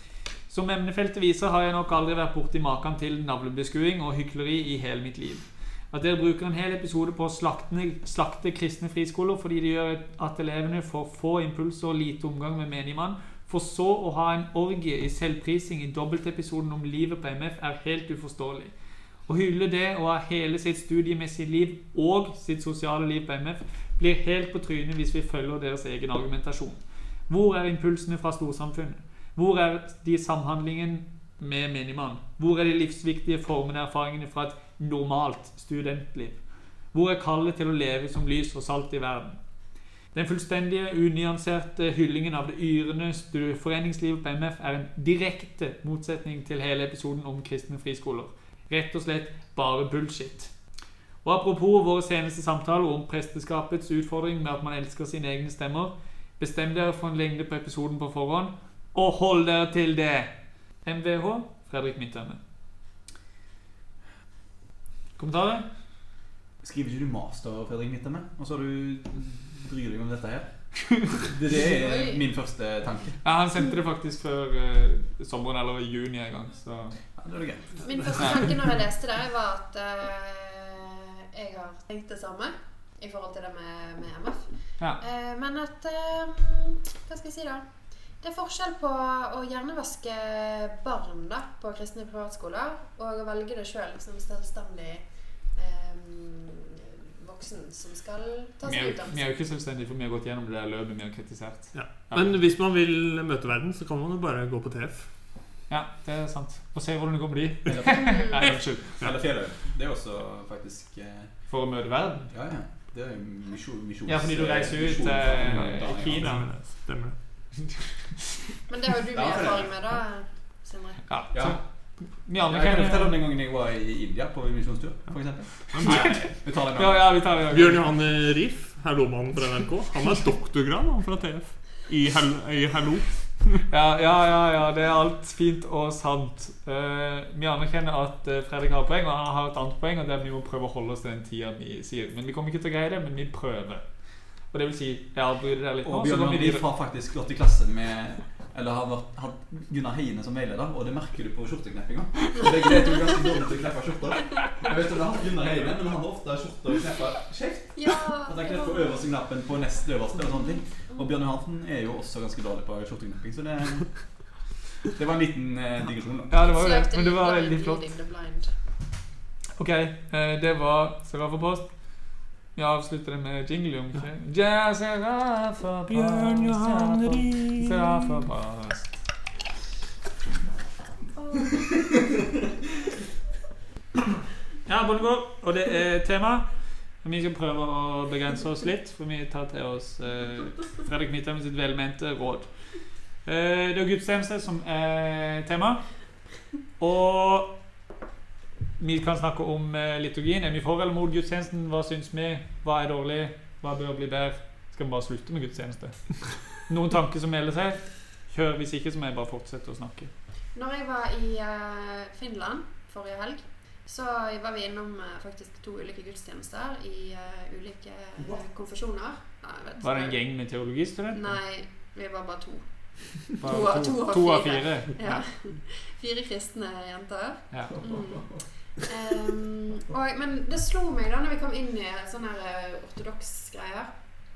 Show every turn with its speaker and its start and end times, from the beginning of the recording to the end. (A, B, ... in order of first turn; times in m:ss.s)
0:00.5-0:18.7 A
0:19.3-0:36.4 A
0:36.9-0:39.4 A
0:40.1-0:50.5 A
0:51.2-1:00.3 A
1:00.8-1:02.4 A
1:05.2-1:05.7 A
1:06.6-1:10.5 B
1:11.1-1:13.2 B
1:11.5-1:12.2 C
1:13.2-1:17.0 A
1:17.2-1:18.5 B
1:17.8-1:24.5 C
1:25.0-1:27.7 C
1:28.2-1:39.2 C
1:38.7-1:42.4 A
1:41.7-1:45.1 D
1:45.7-1:49.0 A
1:47.7-1:51.3 B
1:47.9-1:48.4 C
1:51.5-1:52.3 A
1:52.3-1:56.4 B
1:54.1-1:56.4 A
1:56.1-1:57.2 D
1:58.7-2:01.0 C
1:59.1-1:59.7 B
2:01.1-2:01.6 A
2:01.3-2:01.6 B
2:02.2-2:03.2 A
2:02.4-2:07.1 B
2:05.7-2:06.1 D
2:05.8-2:07.9 A
2:07.5-2:13.6 D
2:13.7-2:23.8 A
2:24.5-2:26.7 A
2:25.8-2:44.3 B
2:37.8-2:39.0 C
2:44.9-2:46.3 B
2:46.3-2:47.9 A
2:46.4-2:48.5 C
2:49.6-2:51.7 A
2:52.6-2:58.9 A
2:55.9-2:58.0 D
3:01.2-3:01.8 C
3:04.7-3:06.5 A
3:07.0-3:12.5 A
3:13.2-3:15.8 A
3:16.8-3:17.6 A
3:18.8-3:30.1 A
3:30.6-3:40.2 C
3:39.8-3:41.3 A
3:41.1-3:54.0 C
3:43.4-3:45.2 A
3:47.8-3:48.4 B